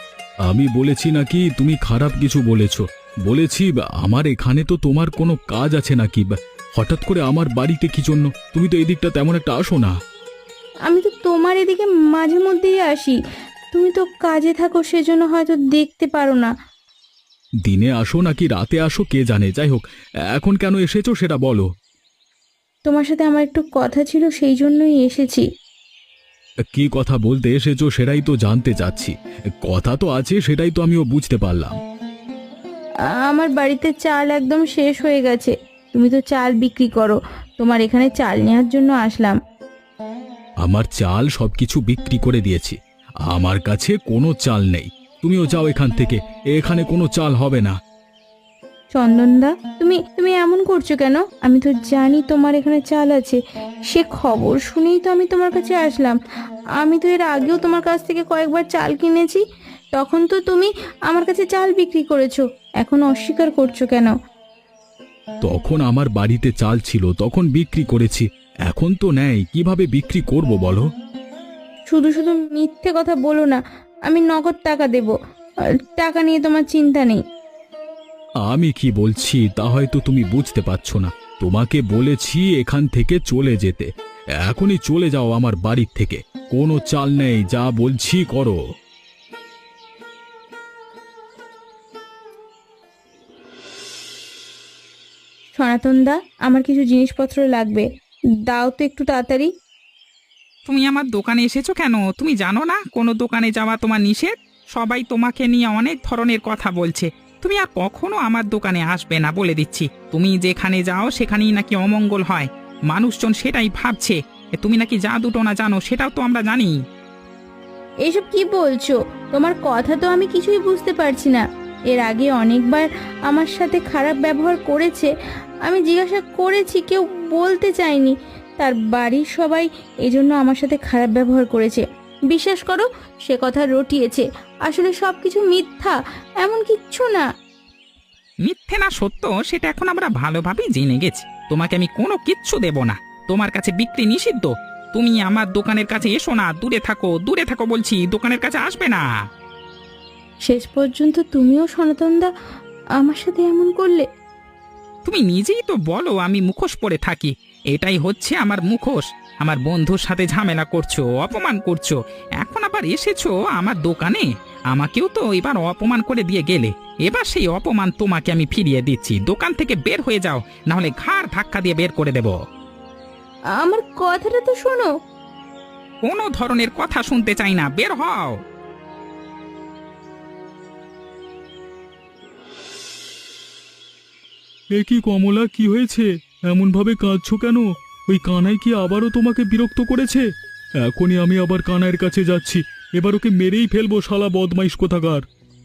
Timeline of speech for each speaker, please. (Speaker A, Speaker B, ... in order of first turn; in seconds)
Speaker A: 0.5-9.9, 17.6-21.7, 26.7-31.8, 40.6-47.8, 65.4-70.9, 78.4-83.9, 84.4-88.6
Speaker B: 10.9-13.2, 13.7-16.5, 22.9-25.4, 33.1-39.4, 48.9-56.2, 56.8-59.4, 60.0-64.1, 71.9-75.1, 75.9-77.2, 95.5-97.9, 98.5-99.5, 118.0-125.1, 125.7-137.3, 150.4-152.3, 153.0-154.1, 173.5-174.9
Speaker C: 100.7-116.8, 138.4-149.0, 155.0-172.4, 176.0-178.4
Speaker D: 184.8-190.2, 190.9-195.2